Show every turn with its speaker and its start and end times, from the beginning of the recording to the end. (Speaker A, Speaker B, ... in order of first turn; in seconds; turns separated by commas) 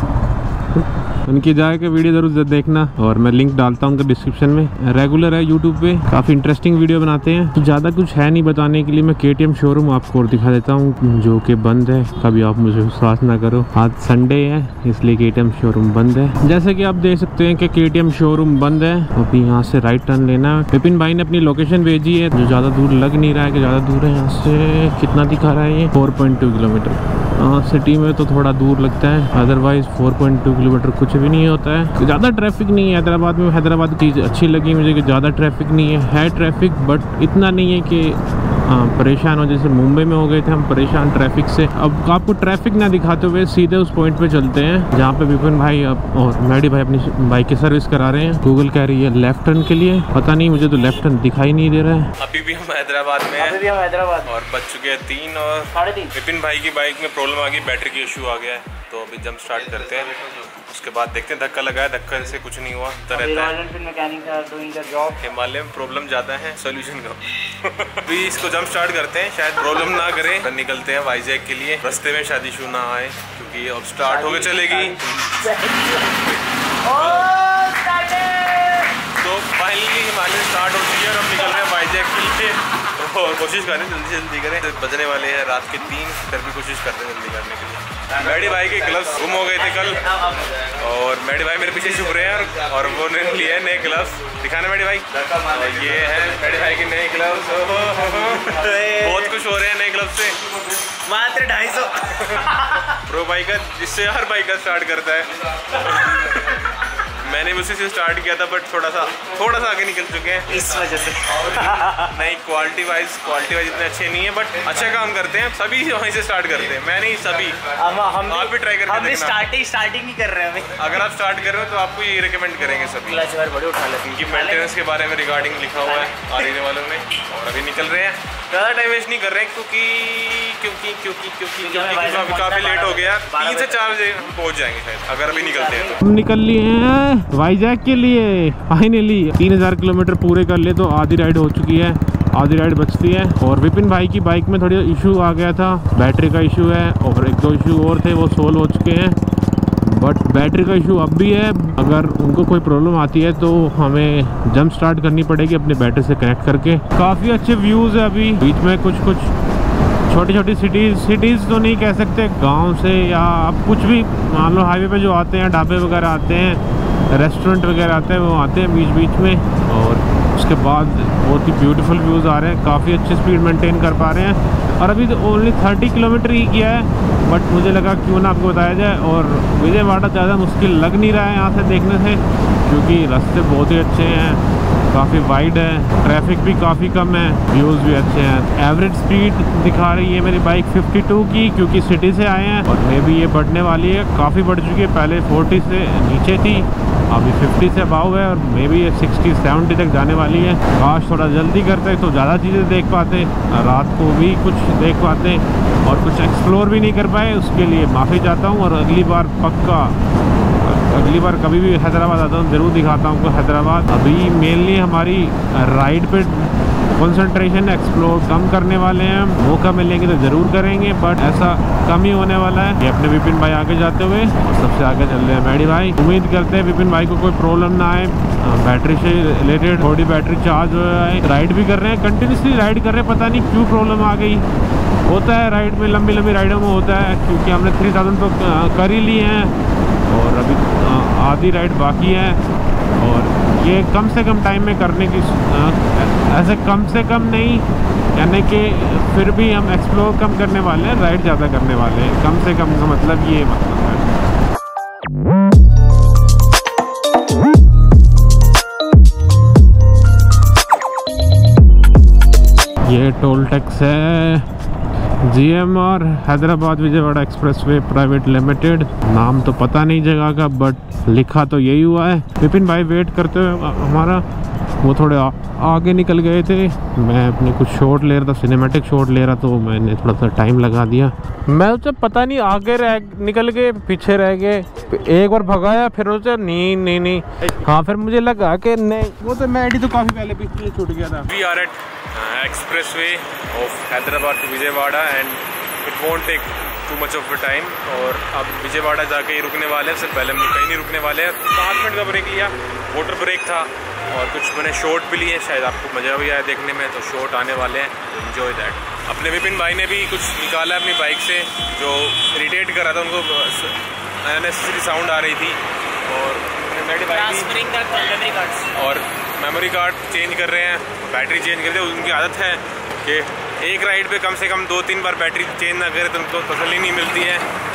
Speaker A: 0.8-52.1, Speaker B: 52.2-53.6, Speaker C: 53.4-54.3, Speaker B: 54.2-63.6, Speaker C: 55.7-56.1, Speaker C: 63.1-65.2, Speaker B: 65.2-75.4, Speaker C: 74.0-76.1, Speaker C: 76.8-78.9, Speaker B: 76.9-77.3, Speaker B: 79.1-90.1, Speaker C: 88.3-90.7, Speaker B: 90.6-100.4, Speaker C: 98.3-99.3, Speaker C: 100.9-103.0, Speaker B: 102.0-119.5, Speaker C: 110.5-112.1, Speaker C: 117.8-121.0, Speaker B: 120.7-123.2, Speaker C: 123.0-124.7, Speaker B: 124.0-136.0, Speaker C: 125.8-126.5, Speaker C: 131.6-133.9, Speaker C: 135.3-136.0, Speaker A: 136.0-149.2, Speaker A: 149.8-159.3, Speaker A: 160.1-210.0, Speaker A: 210.6-234.5, Speaker A: 235.1-239.5, Speaker A: 240.1-242.4, Speaker A: 243.0-254.1, Speaker A: 262.9-264.5, Speaker A: 265.2-274.2, Speaker A: 274.8-291.3, Speaker B: 291.3-317.5, Speaker C: 317.1-318.7, Speaker B: 318.7-327.5